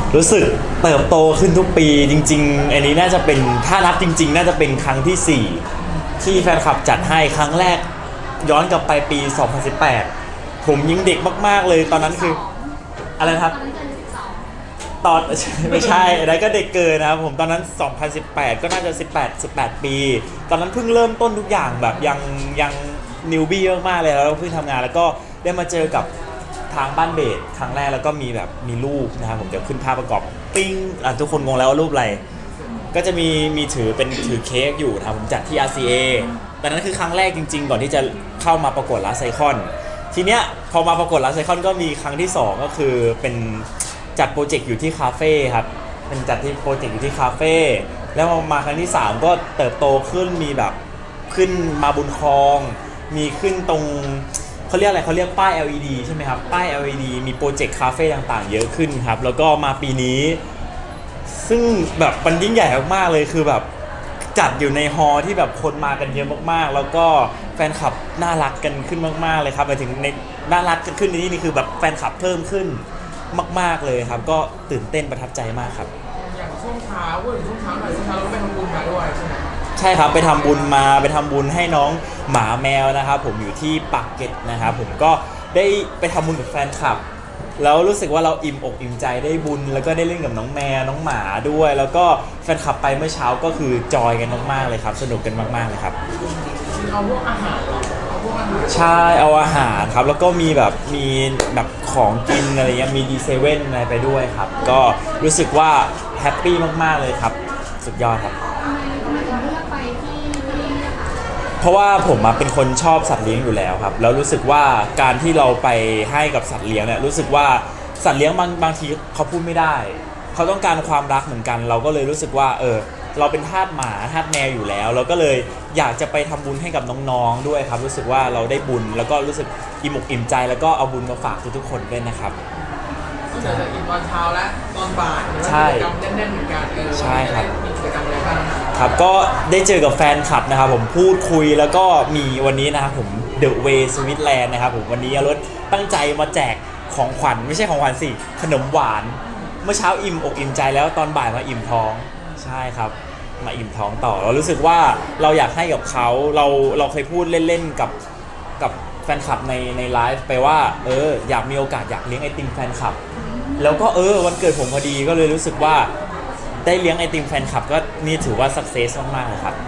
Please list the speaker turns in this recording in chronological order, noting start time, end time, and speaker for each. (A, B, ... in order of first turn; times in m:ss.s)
0:00.1-0:05.6 A
0:06.2-0:07.9 A
0:08.4-0:10.1 A
0:10.6-0:12.4 A
0:11.8-0:14.5 B
0:13.2-0:13.6 A
0:15.0-0:26.1 A
0:26.7-0:32.2 A
0:32.9-0:50.8 A
0:51.3-1:00.4 A
1:01.3-1:03.7 A
1:04.4-1:15.9 A
1:16.1-1:19.5 C
1:19.8-1:27.0 A
1:27.6-1:36.0 A
1:36.4-1:39.1 C
1:38.7-1:48.4 A
1:48.6-1:51.2 B
1:51.6-2:12.4 A
2:13.3-2:18.7 C
2:15.4-2:15.9 A
2:16.9-2:17.5 A
2:18.8-2:38.0 A
2:38.6-2:43.0 A
2:43.2-2:43.8 B
2:43.6-2:45.9 A
2:46.6-2:49.6 A